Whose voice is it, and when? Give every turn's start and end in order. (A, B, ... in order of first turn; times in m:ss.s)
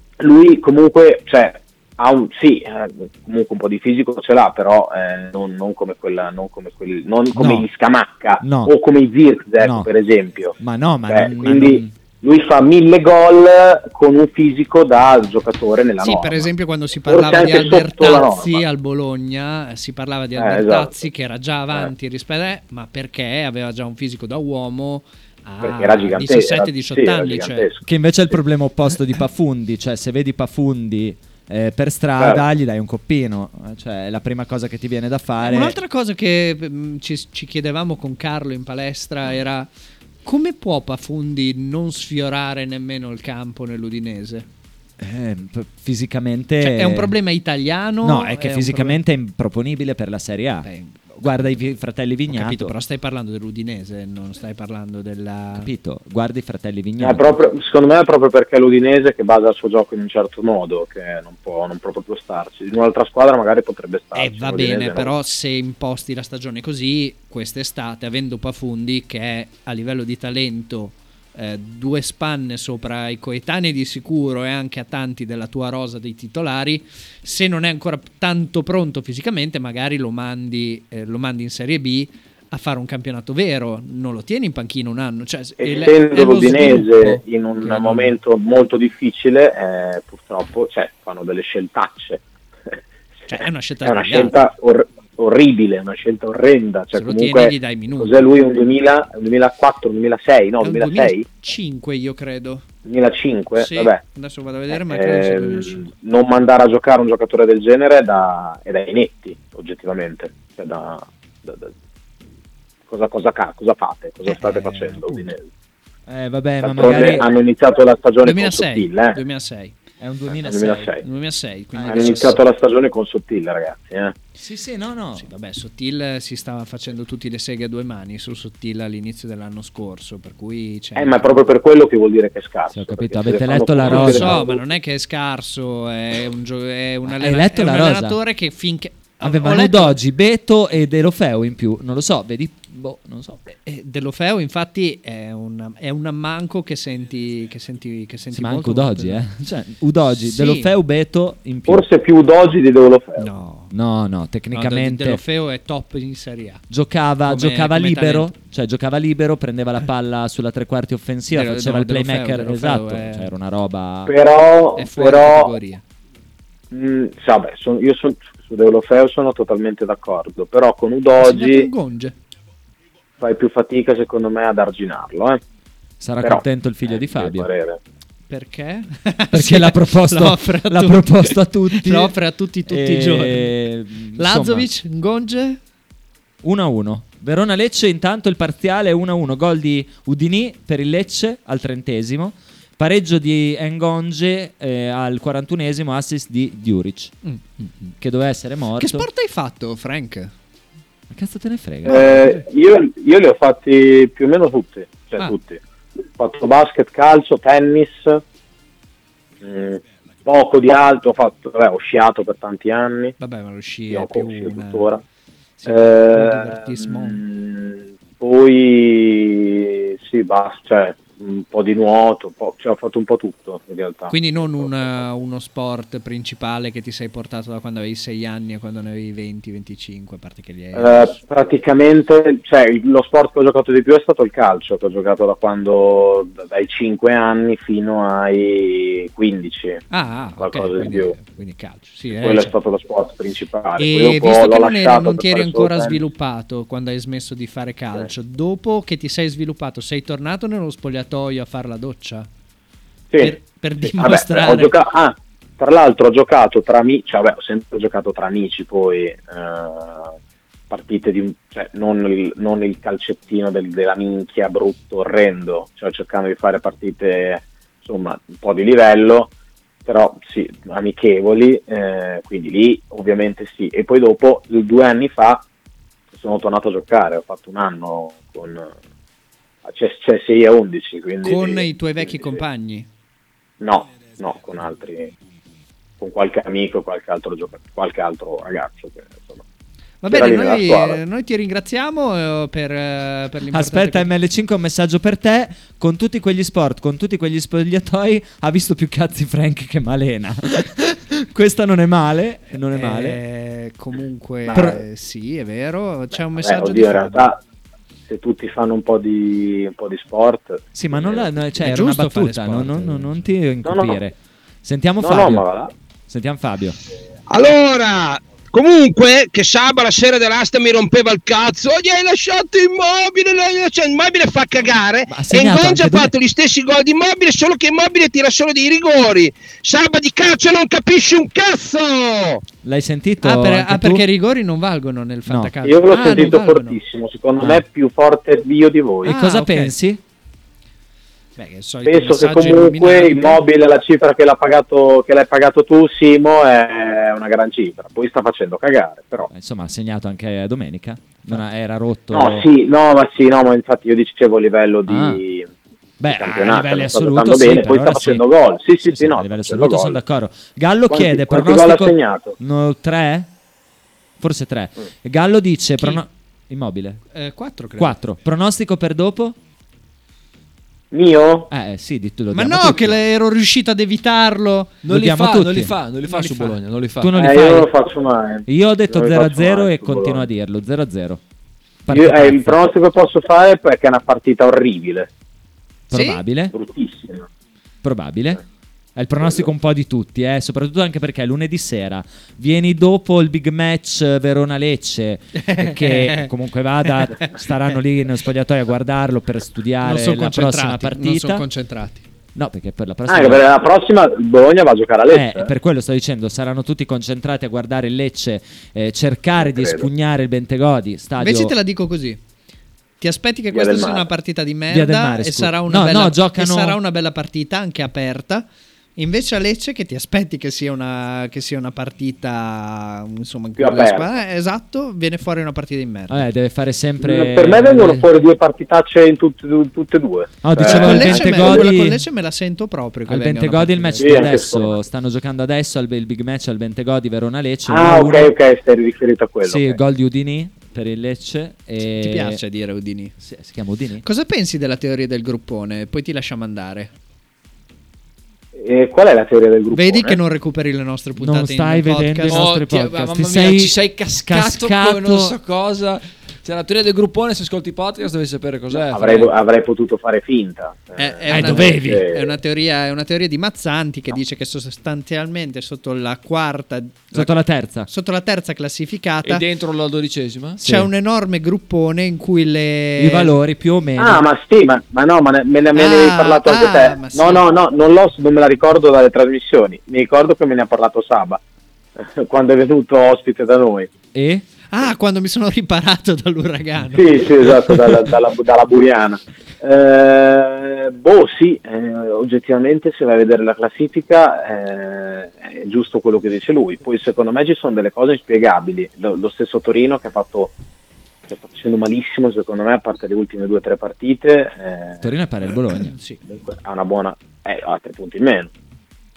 0:00.2-0:10.6 A
0:07.3-0:07.7 B
0:08.4-0:08.7 B
0:09.6-0:09.9 B
0:10.6-0:11.9 B
0:11.1-0:16.5 A
0:16.0-0:27.7 C
0:17.1-0:18.6 A
0:20.4-0:21.0 A
0:25.6-0:27.8 A
0:27.8-0:35.8 B
0:35.4-0:39.7 C
0:40.2-0:44.5 C
0:45.0-0:47.1 B
0:46.6-0:49.0 C
0:48.0-0:50.7 B
0:50.6-0:51.6 C
0:51.2-0:52.7 B
0:52.3-0:55.7 C
0:55.6-0:57.4 B
0:57.0-1:05.1 A
1:04.2-1:28.2 C
1:25.6-1:32.2 A
1:33.3-1:34.4 C
1:33.8-1:41.2 A
1:36.9-1:38.2 C
1:40.6-1:42.6 C
1:42.9-1:44.0 A
1:43.6-1:45.9 C
1:44.7-1:51.7 A
1:52.9-1:55.4 A
1:54.3-1:55.3 C
1:56.1-1:57.3 B
1:56.6-1:59.2 A
1:58.2-1:59.7 C
2:00.0-2:01.0 B
2:00.4-2:01.0 A
2:01.0-2:02.4 C
2:01.8-2:02.4 B
2:01.9-2:04.2 A
2:04.4-2:05.3 B
2:05.2-2:11.3 C
2:11.0-2:14.6 A
2:12.7-2:14.5 B
2:13.8-2:20.0 C
2:17.1-2:18.2 B
2:19.2-2:23.4 B
2:23.6-2:29.2 C
2:28.3-2:31.9 B
2:30.2-2:30.7 C
2:31.7-2:33.3 A
2:33.2-2:33.7 C
2:33.7-2:35.2 B
2:34.5-2:36.6 C
2:36.7-2:44.1 B
2:37.2-2:38.3 C
2:41.3-2:43.3 C
2:44.1-2:45.5 A
2:44.8-2:45.8 C
2:46.7-2:51.7 A
2:51.2-2:52.2 C
2:53.2-2:55.4 A
2:56.0-2:57.5 B
2:56.2-2:57.8 A
2:58.3-3:03.6 C
2:59.3-3:02.2 B
3:02.7-3:04.7 B
3:04.2-3:05.6 C
3:06.4-3:17.1 B
3:17.2-3:17.9 C
3:18.0-3:19.1 B
3:18.8-3:20.3 C
3:21.1-3:22.1 B
3:21.9-3:22.4 C
3:21.9-3:25.6 A
3:26.2-3:28.2 A
3:29.4-3:33.2 A
3:33.2-3:34.9 C
3:33.9-3:35.0 A
3:35.6-3:37.2 C
3:35.7-3:45.0 A
3:44.1-3:51.2 C
3:50.7-3:59.8 A
3:59.9-4:02.6 C
4:00.4-4:01.2 A
4:02.1-4:06.0 A
4:03.8-4:12.3 C
4:13.1-4:20.1 A
4:13.2-4:14.8 C
4:20.7-4:29.3 A
4:29.9-4:35.5 A
4:36.1-4:38.7 A
4:39.7-4:42.3 A
4:41.2-4:42.9 C
4:43.6-4:45.1 A
4:46.0-4:49.4 A
4:50.0-4:54.1 C
4:50.1-4:51.0 A
4:53.5-5:03.2 B
5:02.7-5:07.3 C
5:04.5-5:04.8 B
5:06.3-5:07.4 A
5:08.1-5:11.3 A
5:10.7-5:15.4 B
5:11.6-5:13.1 C
5:13.6-5:14.0 A
5:15.0-5:15.7 A
5:16.1-5:16.8 B
5:17.3-5:32.4 D
5:25.1-5:26.1 B
5:32.6-5:34.1 B
5:33.2-5:36.8 C
5:35.3-5:35.5 B
5:35.6-5:39.1 A
5:39.0-5:39.7 C
5:39.0-5:40.0 B
5:41.4-5:43.4 C
5:41.8-5:49.3 A
5:49.3-5:52.5 B
5:52.1-5:55.5 A
5:54.9-5:55.2 B
5:56.0-5:58.3 B
5:56.1-6:00.0 A
5:58.9-6:03.3 B
6:00.9-6:02.4 A
6:04.2-6:07.0 B
6:07.1-6:08.0 C
6:07.8-6:09.4 B
6:10.9-6:11.5 A
6:11.5-6:13.0 B
6:12.3-6:14.8 C
6:14.8-6:17.1 E
6:14.9-6:15.8 B
6:16.1-6:16.6 C
6:17.0-6:17.7 B
6:17.2-6:20.3 A
6:18.5-6:21.2 B
6:21.9-6:22.6 B
6:21.9-6:25.1 A
6:25.9-6:26.5 B
6:25.9-6:26.2 C
6:26.5-6:27.3 A
6:27.8-6:28.4 B
6:29.0-6:41.5 B
6:35.4-6:36.3 C
6:39.8-6:42.1 C
6:42.4-6:43.5 B
6:43.1-6:45.5 A
6:45.1-6:51.6 B
6:49.4-6:49.8 A
6:51.2-6:52.2 C
6:53.0-6:58.5 C
6:53.5-6:54.0 A
6:54.7-6:56.8 B
6:59.0-7:06.3 C
7:03.6-7:04.1 A
7:06.1-7:08.1 B
7:07.0-7:11.7 A
7:10.4-7:12.0 B
7:10.6-7:14.4 C
7:13.1-7:18.4 B
7:14.0-7:14.7 A
7:17.7-7:19.8 A
7:19.4-7:22.4 B
7:21.8-7:23.1 C
7:23.2-7:24.0 B
7:24.0-7:26.9 C
7:28.6-7:30.2 A
7:29.7-7:32.4 C
7:31.2-7:35.4 B
7:32.3-7:39.3 E
7:38.7-7:42.3 A
7:41.0-7:49.4 C
7:41.3-7:42.0 B
7:47.1-7:47.9 B
7:49.2-7:50.6 E
7:50.6-7:50.9 B
7:50.6-7:53.3 C
7:53.0-7:54.2 B
7:54.0-8:01.4 A
7:55.8-7:57.4 C
8:02.0-8:03.9 A
8:04.1-8:04.4 B
8:04.7-8:07.3 C
8:06.9-8:20.5 A
8:21.3-8:25.0 A
8:25.0-8:25.9 B
8:25.9-8:26.2 C
8:26.3-8:28.5 A